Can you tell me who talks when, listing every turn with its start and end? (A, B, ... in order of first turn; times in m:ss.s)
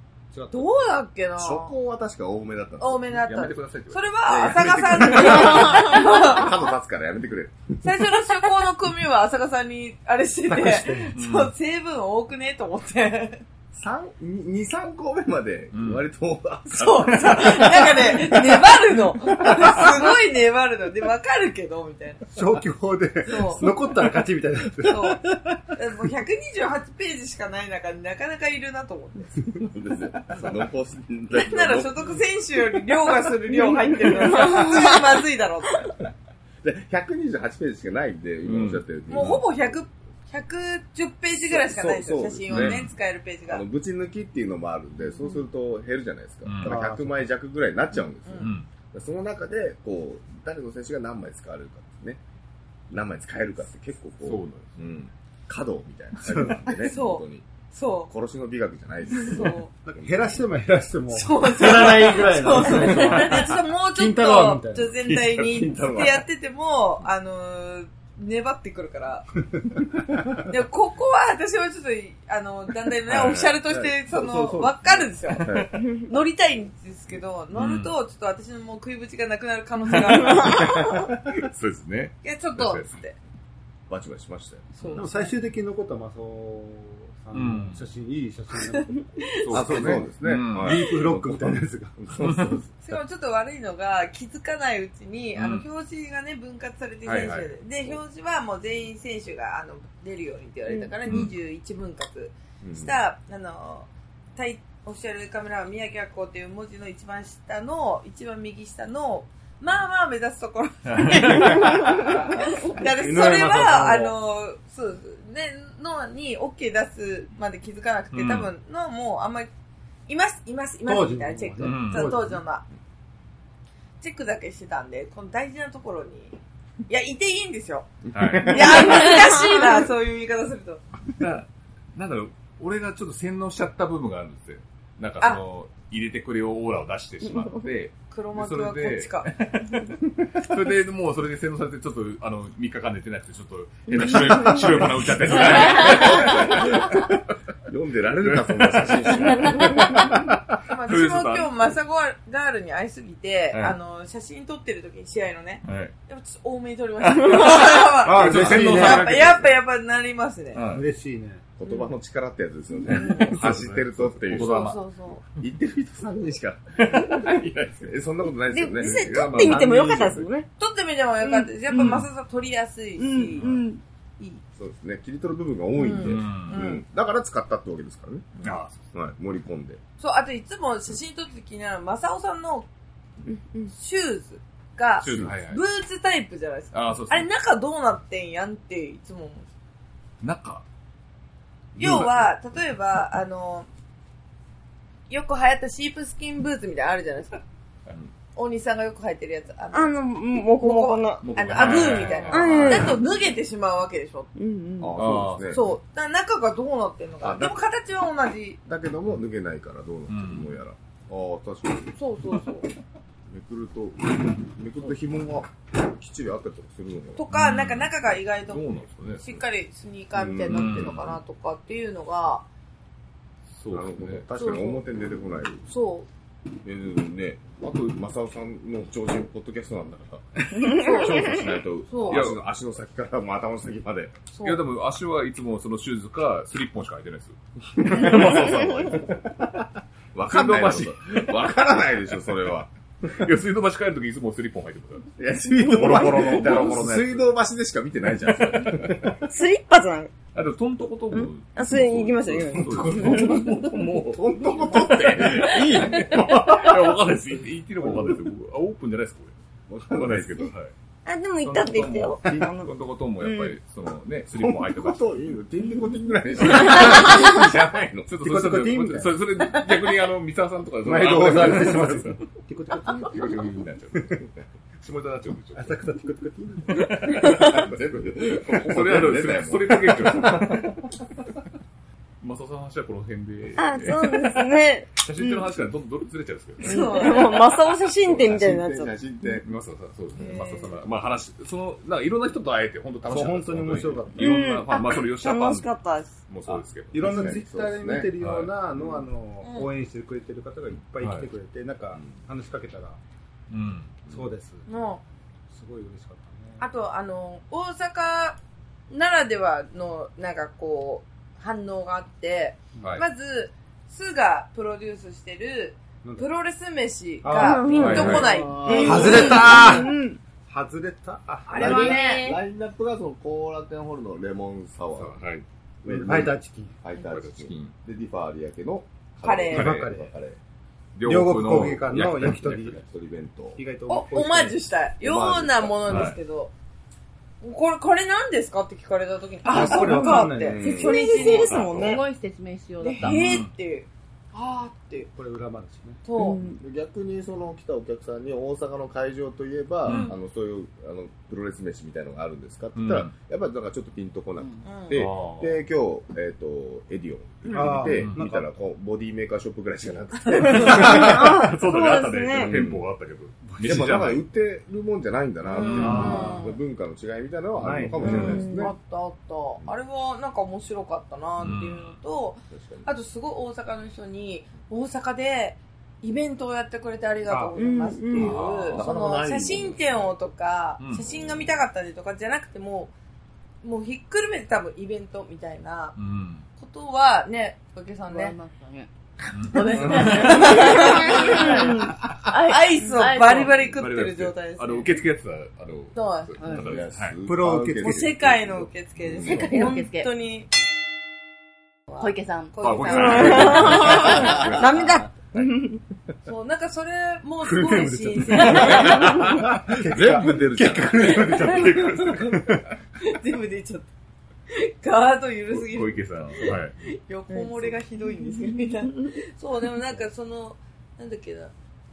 0:00.3-0:00.8 A
0:00.5-0:01.7 B
0:01.4-0:03.2 C
0:02.8-0:06.5 B
0:03.1-0:04.5 D
0:04.2-0:08.0 C
0:07.8-0:13.4 B
0:10.5-0:11.1 A
0:11.1-0:11.5 D
0:13.7-0:18.7 C
0:15.7-0:16.0 D
0:16.7-0:22.3 B
0:19.4-0:19.9 C
0:22.3-0:25.5 A
0:23.2-0:23.7 B
0:24.8-0:29.6 B
0:29.6-0:32.2 C
0:31.3-0:36.0 B
0:34.3-0:34.8 E
0:36.6-0:39.5 C
0:38.4-0:39.4 D
0:39.1-0:43.6 B
0:41.4-0:42.8 C
0:42.5-0:42.9 D
0:43.5-0:52.2 C
0:46.4-0:46.8 D
0:46.6-0:47.2 A
0:48.2-0:48.5 B
0:48.4-0:48.7 D
0:52.9-0:57.5 C
0:54.2-0:54.8 D
0:56.3-0:56.6 A
0:56.7-0:58.1 B
0:58.1-1:00.4 C
0:59.1-0:59.7 B
0:59.8-1:05.0 A
1:01.1-1:09.3 B
1:05.0-1:05.7 D
1:05.1-1:06.2 C
1:10.4-1:21.1 B
1:13.1-1:13.6 D
1:13.6-1:15.8 C
1:15.3-1:15.6 D
1:17.5-1:17.9 D
1:20.3-1:23.0 D
1:22.2-1:23.1 B
1:23.9-1:24.7 C
1:24.8-1:25.1 D
1:24.8-1:25.3 B
1:25.0-1:32.0 A
1:27.3-1:27.8 D
1:28.8-1:29.7 B
1:29.3-1:30.9 D
1:29.5-1:32.7 C
1:32.2-1:32.6 D
1:32.8-1:59.5 B
1:35.3-1:35.6 D
1:37.0-1:37.5 D
1:40.7-1:40.9 E
1:41.1-1:41.3 D
1:42.6-1:42.9 C
1:50.8-1:51.7 D
1:52.9-1:54.2 A
1:58.1-1:58.5 D
2:00.1-2:02.6 B
2:00.8-2:02.4 A
2:01.6-2:02.2 D
2:04.0-2:10.8 B
2:08.0-2:08.9 C
2:08.1-2:09.0 D
2:08.9-2:09.6 E
2:11.1-2:27.1 D
2:18.1-2:19.3 B
2:24.4-2:27.1 C
2:27.7-2:30.1 C
2:28.2-2:30.1 D
2:30.6-2:40.6 B
2:30.8-2:31.5 D
2:35.6-2:35.9 D
2:38.0-2:39.3 A
2:38.0-2:39.5 D
2:40.5-2:40.8 D
2:40.7-2:41.4 A
2:41.6-2:44.6 C
2:42.8-2:44.8 D
2:42.9-2:43.4 B
2:44.3-2:45.2 B
2:45.4-2:49.9 C
2:46.8-2:47.9 D
2:48.5-2:50.5 E
2:48.7-2:50.3 D
2:50.6-2:53.5 B
2:51.2-2:52.0 E
2:51.7-2:52.1 D
2:53.0-2:53.8 E
2:54.6-2:58.2 C
2:55.8-2:56.8 B
2:56.0-2:56.7 D
2:58.4-2:58.9 D
2:58.9-2:59.8 C
3:00.0-3:02.7 B
3:03.3-3:03.7 E
3:03.6-3:09.5 B
3:05.0-3:05.6 D
3:05.0-3:05.3 C
3:06.7-3:07.3 D
3:10.2-3:10.6 D
3:11.8-3:12.3 D
3:11.8-3:13.7 B
3:15.1-3:17.4 B
3:18.3-3:24.3 B
3:19.7-3:21.2 E
3:21.2-3:23.0 D
3:22.3-3:23.0 E
3:24.4-3:25.0 E
3:24.8-3:25.7 C
3:25.0-3:25.7 D
3:25.5-3:28.6 B
3:27.2-3:27.6 C
3:28.7-3:32.0 C
3:30.1-3:30.6 D
3:32.0-3:32.7 B
3:33.3-3:37.2 C
3:37.1-3:42.5 B
3:37.3-3:39.4 D
3:40.1-3:41.2 C
3:40.4-3:41.1 D
3:43.5-3:44.2 D
3:43.7-3:45.6 C
3:44.4-3:44.8 B
3:45.6-3:46.1 B
3:46.6-3:54.2 C
3:50.7-3:51.3 B
3:51.2-3:51.5 D
3:51.9-3:52.2 B
3:52.0-3:52.4 D
3:54.3-3:54.6 B
3:54.4-3:59.2 D
3:57.8-4:03.2 C
4:00.2-4:01.6 D
4:03.1-4:07.3 D
4:05.2-4:09.2 C
4:08.4-4:09.0 D
4:09.3-4:10.1 E
4:10.3-4:19.3 D
4:11.1-4:13.4 E
4:12.7-4:16.5 C
4:17.8-4:18.1 C
4:19.7-4:20.5 C
4:19.9-4:20.7 D
4:21.0-4:23.5 E
4:21.4-4:25.1 D
4:24.3-4:28.1 C
4:26.4-4:27.3 D
4:28.0-4:32.2 D
4:28.2-4:29.2 A
4:30.8-4:33.4 A
4:31.0-4:32.0 C
4:32.8-4:35.8 D
4:35.5-4:36.8 A
4:36.7-4:40.7 D
4:36.8-4:40.7 C
4:42.2-4:44.4 D
4:43.6-4:44.9 E
4:45.0-4:46.9 D
4:46.6-4:47.4 B
4:46.6-4:49.0 E
4:47.9-4:49.5 C
4:49.4-4:55.7 D
4:50.1-4:50.8 B
4:53.0-4:54.3 A
4:54.2-4:56.1 E
4:56.3-4:57.4 D
4:56.5-4:58.1 C
4:56.9-5:03.0 A
4:58.2-4:58.5 D
4:58.7-4:59.0 C
4:59.4-4:59.7 B
5:01.0-5:01.3 D
5:03.5-5:04.0 D
5:04.1-5:04.6 A
5:04.7-5:05.0 B
5:05.5-5:06.7 A
5:06.6-5:08.4 B
5:08.9-5:19.8 B
5:17.2-5:18.2 A
5:17.3-5:20.2 E
5:17.8-5:18.5 D
5:17.8-5:19.5 C
5:18.8-5:19.9 A
5:20.5-5:22.0 A
5:21.5-5:22.3 B
5:21.5-5:25.2 C
5:21.7-5:22.3 F
5:24.9-5:25.4 D
5:25.8-5:30.4 C
5:25.8-5:26.8 A
5:26.9-5:27.7 D
5:29.2-5:29.7 B
5:29.5-5:29.9 D
5:29.5-5:30.1 A
5:31.0-5:32.8 D
5:31.0-5:32.8 A
5:32.4-5:33.6 C
5:33.6-5:34.6 A
5:33.9-5:36.5 B
5:35.0-5:36.2 C
5:35.9-5:36.2 D
5:37.4-5:41.6 B
5:39.4-5:40.7 A
5:39.7-5:42.0 E
5:40.4-5:41.2 C
5:41.2-5:43.4 F
5:41.5-5:41.9 D
5:42.8-5:45.1 B
5:43.0-5:43.5 D
5:45.2-5:46.0 A
5:46.0-5:46.4 B
5:46.2-5:46.6 E
5:46.6-6:01.5 C
5:49.8-5:50.1 D
5:49.9-5:50.2 B
5:52.8-5:53.1 D
5:54.6-5:55.0 B
5:54.9-5:55.6 D
5:57.5-5:58.5 A
5:57.8-5:58.2 D
6:00.4-6:00.8 B
6:00.4-6:04.2 D
6:00.6-6:02.6 E
6:02.3-6:02.8 C
6:03.6-6:08.7 C
6:05.5-6:06.6 B
6:05.6-6:06.2 D
6:05.8-6:06.5 A
6:07.6-6:08.4 A
6:08.0-6:08.7 E
6:08.0-6:22.9 B
6:11.4-6:12.0 D
6:12.5-6:12.9 C
6:17.3-6:17.6 A
6:17.6-6:18.4 E
6:18.1-6:18.9 D
6:18.7-6:20.1 C
6:20.8-6:21.1 D
6:21.1-6:21.6 C
6:23.6-6:25.9 B
6:26.0-6:26.5 D
6:26.6-6:28.3 B
6:28.1-6:28.9 F
6:29.3-6:30.4 D
6:29.5-6:35.0 B
6:29.5-6:33.6 F
6:30.3-6:31.9 E
6:33.5-6:37.2 D
6:35.9-6:36.3 B
6:36.4-6:39.5 C
6:37.2-6:38.2 A
6:37.8-6:40.5 B
6:39.2-6:39.8 E
6:39.2-6:40.1 F
6:41.9-6:44.5 B
6:42.0-6:43.4 F
6:42.6-6:44.9 D
6:42.9-6:45.8 E
6:43.9-6:44.5 F
6:44.1-6:44.6 C
6:46.2-6:49.2 B
6:47.4-6:52.6 A
6:48.5-6:52.0 C
6:51.5-6:52.2 D
6:51.6-6:52.1 B
6:53.0-6:53.9 B
6:54.5-7:01.5 B
6:55.5-6:56.8 D
6:57.3-6:59.1 E